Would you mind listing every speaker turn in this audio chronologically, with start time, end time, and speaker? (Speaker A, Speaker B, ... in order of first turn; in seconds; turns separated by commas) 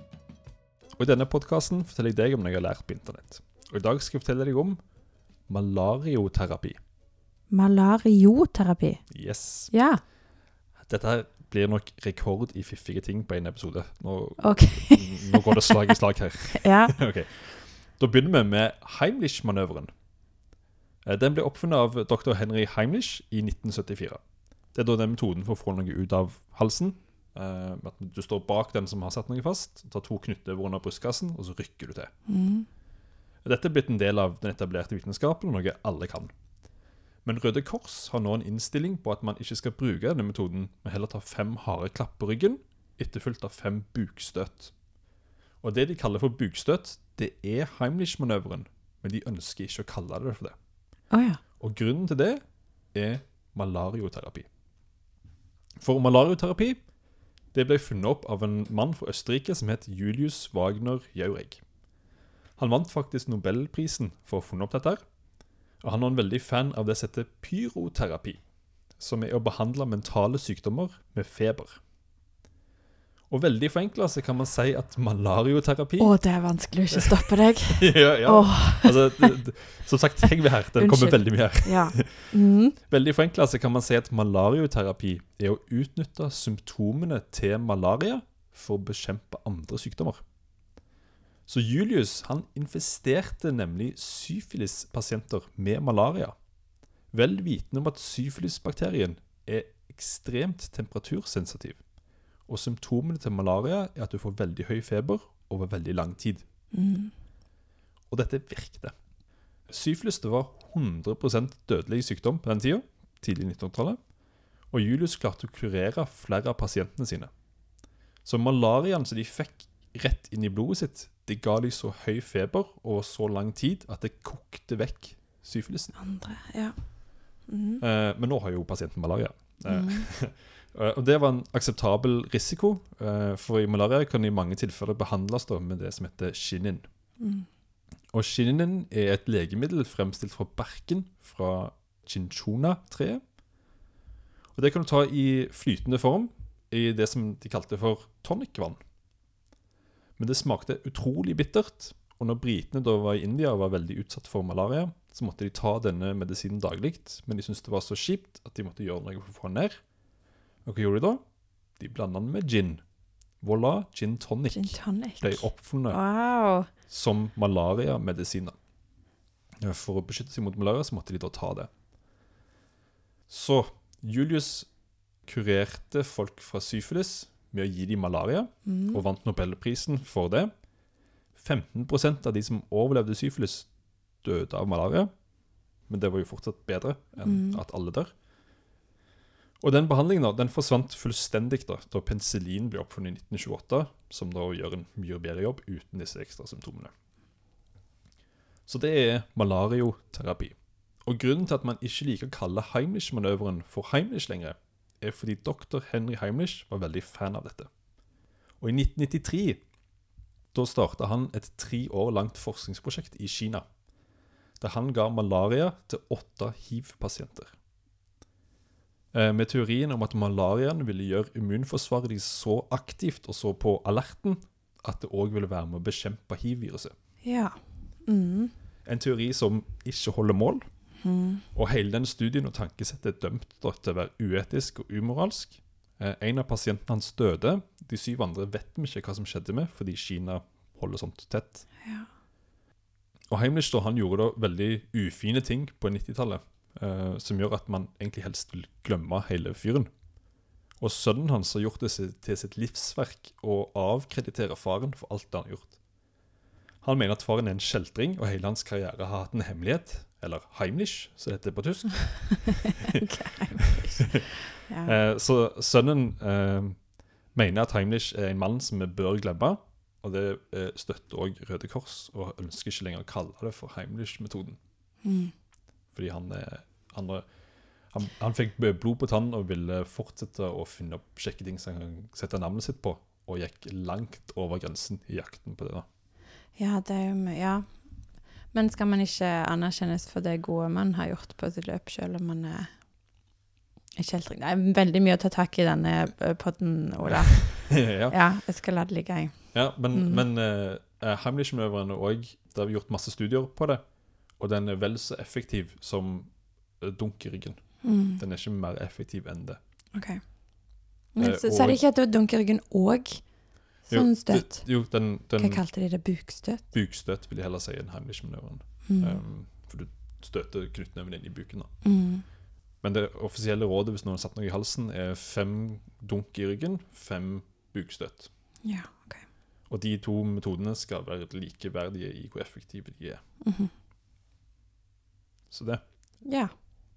Speaker A: 1.0-4.8, Speaker A: 5.5-6.8, Speaker B: 7.5-10.0, Speaker A: 9.1-9.7, Speaker A: 10.8-19.9, Speaker B: 14.4-15.7, Speaker B: 16.5-16.9, Speaker A: 21.0-32.1, Speaker B: 32.3-32.7, Speaker A: 33.4-36.3, Speaker A: 37.2-44.8, Speaker A: 45.6-50.6, Speaker B: 51.1-51.4, Speaker A: 51.6-54.5, Speaker A: 55.8-56.9, Speaker A: 57.5-61.6, Speaker A: 62.6-65.0, Speaker A: 65.8-71.8, Speaker A: 73.3-76.2, Speaker B: 76.0-79.3, Speaker A: 77.7-90.2, Speaker B: 80.8-82.8, Speaker A: 91.5-96.3, Speaker A: 97.1-101.8, Speaker A: 102.4-106.4, Speaker B: 106.7-107.1, Speaker A: 108.1-108.9, Speaker A: 109.7-114.1, Speaker A: 114.7-117.3, Speaker A: 118.2-126.0, Speaker B: 126.0-127.8, Speaker A: 127.8-136.9, Speaker B: 129.7-130.1, Speaker B: 137.2-137.5, Speaker A: 138.1-143.2, Speaker A: 144.5-148.8, Speaker A: 150.2-160.0, Speaker A: 160.6-162.8, Speaker A: 163.4-166.2, Speaker B: 164.5-166.7, Speaker A: 166.7-168.6, Speaker A: 169.6-171.7, Speaker A: 173.3-180.7, Speaker B: 178.6-179.0, Speaker A: 181.3-185.1, Speaker A: 185.8-188.1, Speaker B: 187.2-187.6, Speaker A: 189.6-196.9, Speaker A: 198.7-207.7, Speaker A: 208.6-209.6, Speaker A: 210.5-213.7, Speaker A: 214.6-217.6, Speaker A: 219.1-226.9, Speaker B: 227.2-228.5, Speaker A: 228.8-230.8, Speaker B: 231.0-231.4, Speaker A: 231.5-241.6, Speaker A: 243.3-249.9, Speaker A: 250.8-255.8, Speaker A: 256.8-262.7, Speaker B: 262.8-265.0, Speaker A: 264.8-274.6, Speaker B: 275.0-275.3, Speaker A: 275.9-285.9, Speaker B: 286.6-293.3, Speaker B: 294.0-300.2, Speaker A: 297.7-298.1, Speaker A: 299.5-309.6, Speaker B: 307.8-308.2, Speaker B: 309.9-316.7, Speaker A: 311.2-311.8, Speaker A: 313.9-315.6, Speaker A: 316.7-321.8, Speaker B: 318.9-319.2, Speaker B: 321.8-322.2, Speaker A: 322.8-328.3, Speaker B: 328.6-329.3, Speaker A: 329.7-333.2, Speaker B: 333.4-333.7, Speaker A: 335.5-336.2, Speaker B: 336.2-336.5